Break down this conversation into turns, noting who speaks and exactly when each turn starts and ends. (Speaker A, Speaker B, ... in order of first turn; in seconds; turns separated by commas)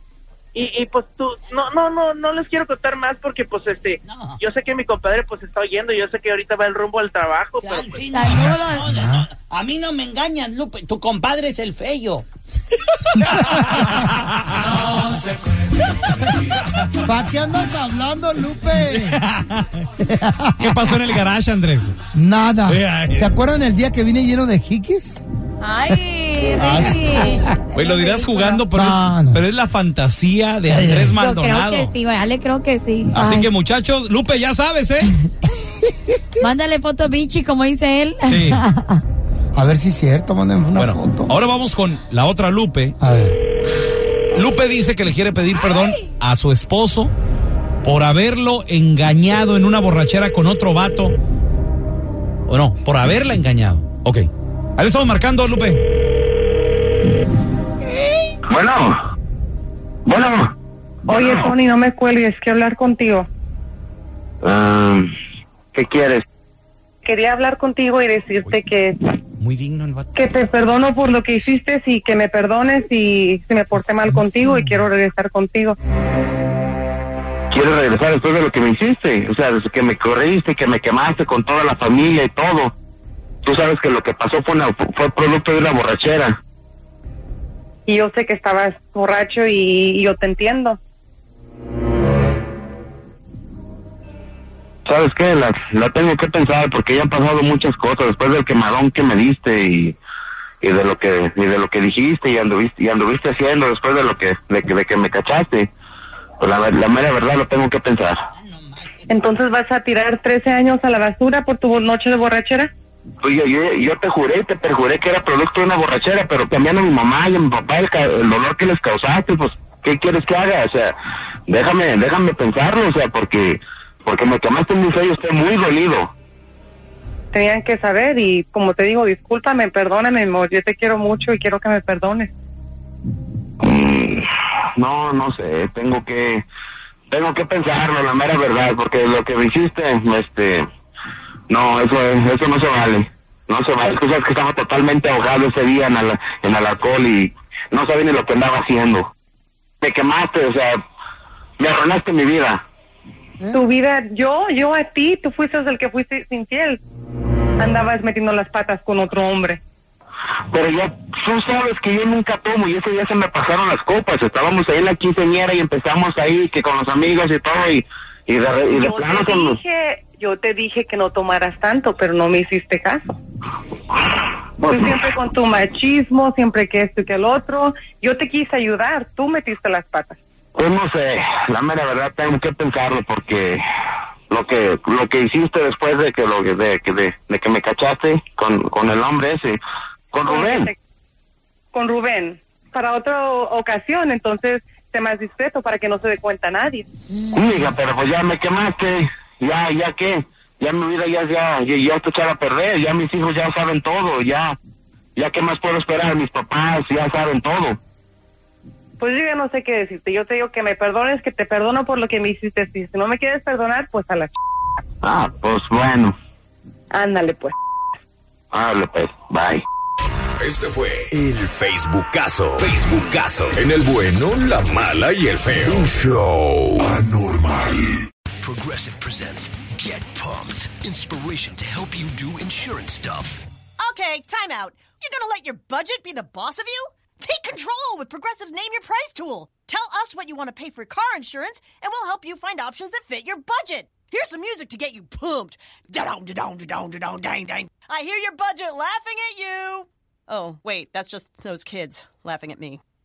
Speaker A: 0.5-8.2, Speaker B: 4.0-4.4, Speaker B: 7.6-12.3, Speaker C: 8.1-8.8, Speaker D: 8.2-9.3, Speaker D: 13.2-14.1, Speaker E: 13.3-14.5, Speaker D: 17.0-19.2, Speaker E: 18.9-19.9, Speaker D: 20.0-21.0, Speaker E: 20.6-22.0, Speaker D: 22.1-25.3, Speaker E: 22.7-23.3, Speaker C: 25.6-28.5, Speaker E: 26.5-31.9, Speaker D: 28.7-29.4, Speaker D: 30.7-31.2, Speaker C: 31.2-33.4, Speaker E: 33.1-35.1, Speaker C: 36.4-39.0, Speaker E: 38.3-38.6, Speaker D: 39.5-41.4, Speaker E: 40.8-43.0, Speaker D: 43.0-43.4, Speaker E: 44.3-47.1, Speaker E: 47.8-51.1, Speaker E: 52.5-55.8, Speaker F: 58.5-58.9, Speaker F: 60.1-60.5, Speaker G: 61.1-63.3, Speaker F: 64.4-65.1, Speaker F: 65.7-66.2, Speaker G: 67.0-69.0, Speaker E: 69.4-70.1, Speaker G: 70.2-75.8, Speaker D: 74.0-74.8, Speaker F: 77.5-82.7, Speaker F: 83.4-86.3, Speaker G: 87.9-90.8, Speaker F: 94.9-100.0, Speaker F: 100.6-105.7, Speaker F: 106.4-108.2, Speaker B: 108.3-109.4, Speaker G: 109.1-112.7, Speaker F: 113.2-121.0, Speaker F: 121.5-126.1, Speaker G: 127.3-132.3, Speaker F: 133.6-134.3, Speaker F: 134.8-136.4, Speaker F: 137.1-140.6, Speaker F: 141.5-149.1, Speaker F: 149.8-150.8, Speaker F: 151.6-152.6, Speaker D: 153.4-153.7, Speaker G: 153.5-156.8, Speaker G: 157.6-159.6, Speaker F: 160.5-169.4, Speaker G: 168.7-173.0, Speaker G: 174.6-180.2, Speaker F: 180.6-183.6, Speaker F: 184.3-189.6, Speaker F: 190.1-190.7, Speaker G: 190.3-190.8, Speaker G: 191.7-196.9, Speaker F: 197.3-204.6, Speaker F: 205.2-207.8, Speaker G: 209.0-214.3, Speaker F: 215.0-216.2, Speaker G: 216.9-217.6, Speaker F: 218.5-219.6, Speaker H: 220.4-226.9, Speaker I: 228.4-233.4, Speaker J: 233.8-252.8